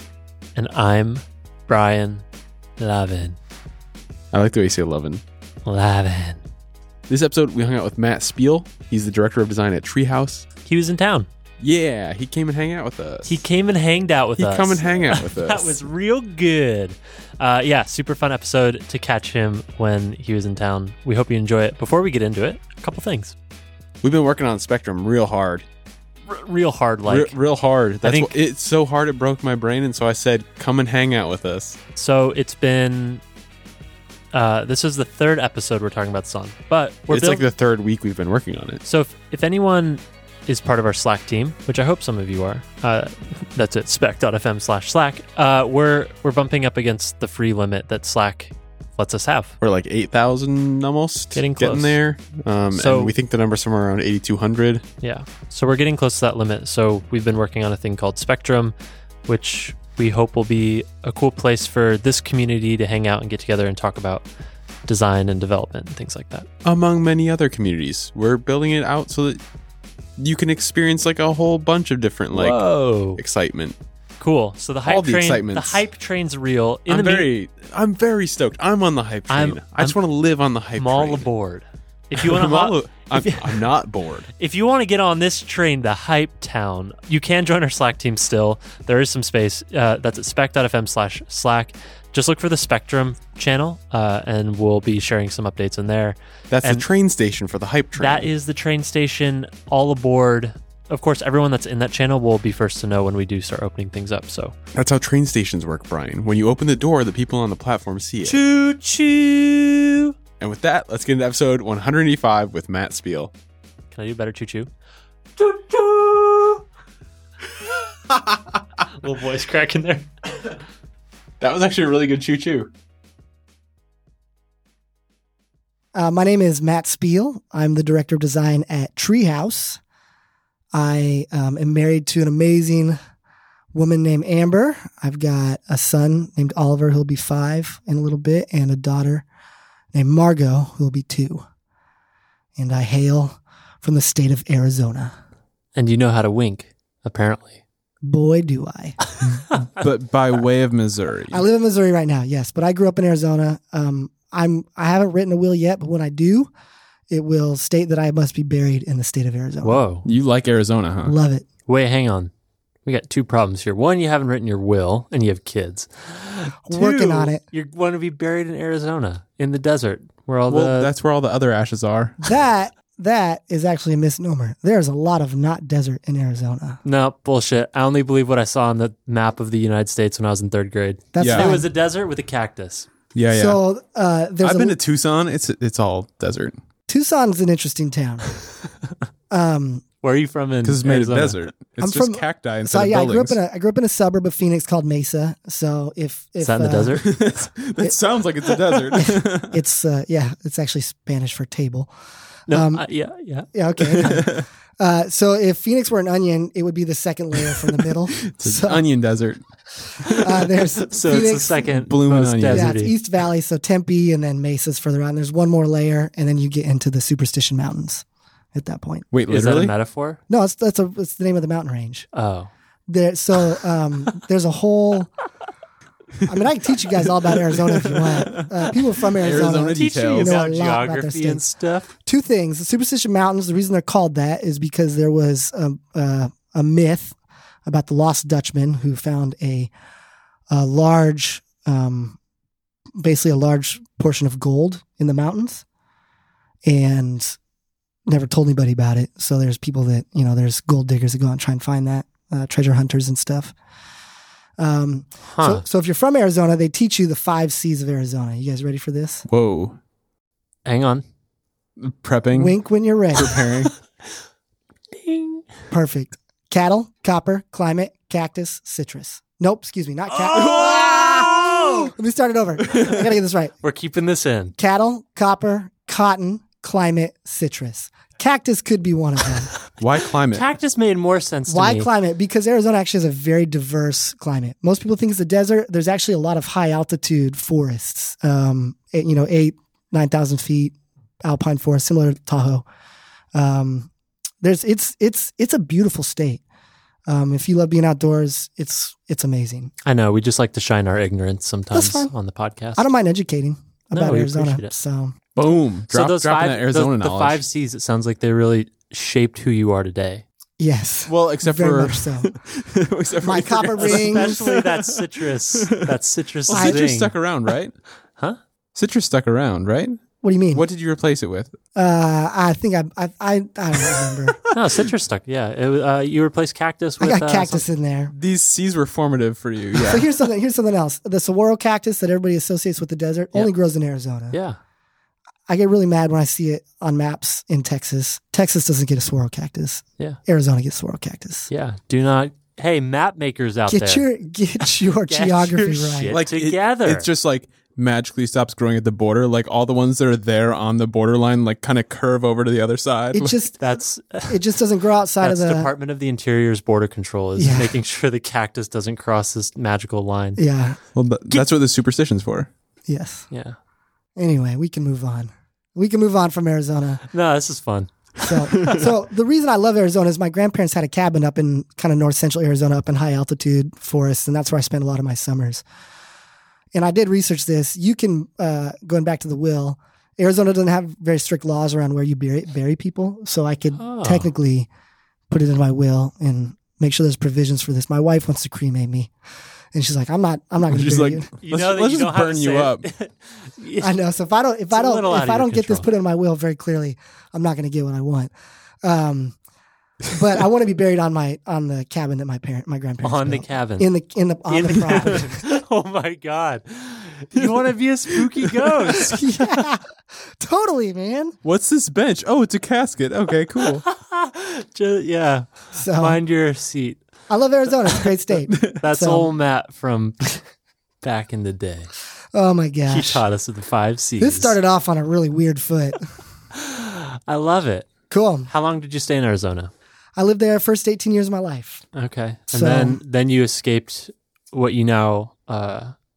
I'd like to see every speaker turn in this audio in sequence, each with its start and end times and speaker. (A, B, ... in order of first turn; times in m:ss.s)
0:00.6-0:02.2 A
0:02.8-0:03.4 A
0:04.3-0:05.2 B
0:05.6-0:06.4 A
0:07.1-0:10.4 B
0:10.6-0:11.3 A
0:11.6-0:13.4 B
0:13.2-0:23.4 A
0:14.4-0:15.8 B
0:24.0-0:25.6 B
0:26.3-0:27.3 A
0:27.1-0:31.8 B
0:28.0-0:28.3 A
0:31.9-0:33.2 A
0:34.3-0:37.4 A
0:37.1-0:38.8 B
0:38.8-0:49.6 A
0:49.6-0:54.8 B
0:51.3-0:52.0 A
0:52.7-0:53.1 A
0:55.0-0:58.7 A
0:59.3-1:04.2 A
1:04.9-1:06.5 A
1:06.6-1:09.4 B
1:10.2-1:12.6 B
1:12.3-1:13.2 A
1:13.2-1:13.8 B
1:14.2-1:17.3 A
1:14.8-1:15.8 B
1:16.9-1:21.3 B
1:19.3-1:20.0 A
1:20.8-1:23.6 A
1:22.2-1:24.3 B
1:24.4-1:36.8 A
1:36.5-1:38.3 B
1:38.0-1:44.6 A
1:44.7-1:48.4 B
1:48.2-1:50.1 A
1:50.4-1:53.3 B
1:53.9-1:54.7 A
1:55.4-1:56.6 A
1:59.0-2:00.1 A
2:01.4-2:02.7 B
2:05.9-2:09.8 C
2:10.7-2:13.0 C
2:13.7-2:19.2 C
2:19.9-2:21.4 C
2:22.6-2:25.1 C
2:25.7-2:27.6 A
2:28.0-2:29.0 C
2:29.2-2:29.6 A
2:29.6-2:31.4 B
2:31.3-2:36.5 C
2:37.1-2:39.8 C
2:39.6-2:40.0 A
2:40.0-2:41.1 B
2:41.0-2:41.4 C
2:41.7-2:42.3 A
2:42.8-2:50.9 A
2:46.6-2:47.4 C
2:50.5-2:52.2 B
2:52.2-2:56.8 C
2:56.8-3:02.9 A
3:01.1-3:01.7 C
3:01.2-3:01.5 B
3:03.1-3:03.6 B
3:03.3-3:04.8 C
3:04.4-3:06.6 B
3:06.9-3:08.3 C
3:09.3-3:09.8 C
3:10.0-3:11.4 A
3:10.6-3:13.4 B
3:11.8-3:17.2 C
3:16.4-3:17.0 A
3:17.0-3:19.6 B
3:18.9-3:21.9 C
3:22.5-3:22.8 C
3:22.5-3:24.1 A
3:23.5-3:28.8 C
3:23.9-3:24.4 B
3:28.2-3:30.5 B
3:30.2-3:31.7 C
3:30.8-3:32.9 A
3:31.8-3:32.7 B
3:32.5-3:39.0 C
3:39.1-3:39.7 B
3:39.3-3:40.2 A
3:40.3-3:42.1 C
3:42.1-3:42.5 A
3:42.9-3:45.1 C
3:46.2-3:51.4 C
3:47.0-3:50.4 B
3:49.3-3:51.9 A
3:52.0-3:59.7 C
4:00.5-4:02.2 C
4:03.0-4:05.6 C
4:06.6-4:07.4 C
4:08.1-4:13.5 C
4:14.6-4:19.3 C
4:15.3-4:15.6 A
4:19.3-4:19.8 B
4:20.6-4:21.0 A
4:21.8-4:22.6 B
4:22.3-4:23.4 C
4:23.1-4:23.7 B
4:24.9-4:25.5 A
4:25.7-4:33.5 C
4:30.1-4:31.9 A
4:30.4-4:31.3 B
4:32.7-4:33.0 B
4:33.6-4:34.6 A
4:34.6-4:39.5 C
4:39.8-4:40.4 B
4:40.3-4:41.9 A
4:41.5-4:52.6 C
4:53.3-4:53.9 C
4:54.4-4:56.4 C
4:57.1-4:59.7 C
4:59.8-5:02.8 A
5:01.7-5:02.1 C
5:02.8-5:05.1 C
5:03.9-5:04.7 A
5:05.4-5:07.4 B
5:05.9-5:10.2 A
5:10.6-5:12.3 C
5:11.1-5:15.0 B
5:13.2-5:14.4 C
5:13.8-5:17.1 A
5:15.5-5:16.0 B
5:16.5-5:17.7 B
5:16.5-5:16.8 C
5:18.7-5:20.0 B
5:20.2-5:20.6 C
5:20.5-5:21.5 B
5:21.7-5:24.4 C
5:23.8-5:24.5 B
5:24.5-5:27.6 A
5:27.0-5:28.1 C
5:28.1-5:30.1 B
5:29.8-5:34.4 C
5:34.3-5:34.6 A
5:35.5-5:41.5 C
5:41.5-5:44.0 A
5:43.7-5:46.2 C
5:45.1-5:47.1 A
5:46.1-5:53.4 B
5:53.1-5:53.6 C
5:53.6-5:54.4 A
5:54.3-5:55.7 C
5:55.2-6:00.4 A
5:57.4-5:57.7 C
6:00.4-6:00.8 C
6:00.9-6:02.5 B
6:02.9-6:03.3 C
6:03.3-6:03.6 A
6:04.2-6:07.0 C
6:07.1-6:07.9 A
6:08.2-6:15.6 C
6:16.7-6:24.7 C
6:23.8-6:24.3 A
6:25.3-6:29.1 C
6:29.7-6:31.3 C
6:30.7-6:32.8 B
6:31.4-6:34.0 A
6:33.8-6:39.4 C
6:34.7-6:35.9 A
6:40.1-6:45.4 C
6:43.0-6:43.9 A
6:44.5-6:49.2 A
6:48.1-6:49.0 B
6:49.1-6:51.3 C
6:51.4-6:53.8 B
6:53.8-6:57.0 A
6:55.7-6:56.2 C
6:57.3-6:59.3 C
6:58.5-6:58.8 B
6:58.8-7:00.4 A
7:01.0-7:01.9 A
7:02.3-7:03.2 C
7:02.9-7:04.6 A
7:04.2-7:06.0 C
7:06.5-7:07.9 A
7:08.1-7:08.5 C
7:08.5-7:09.7 A
7:10.2-7:11.8 C
7:11.9-7:15.9 A
7:12.5-7:13.0 C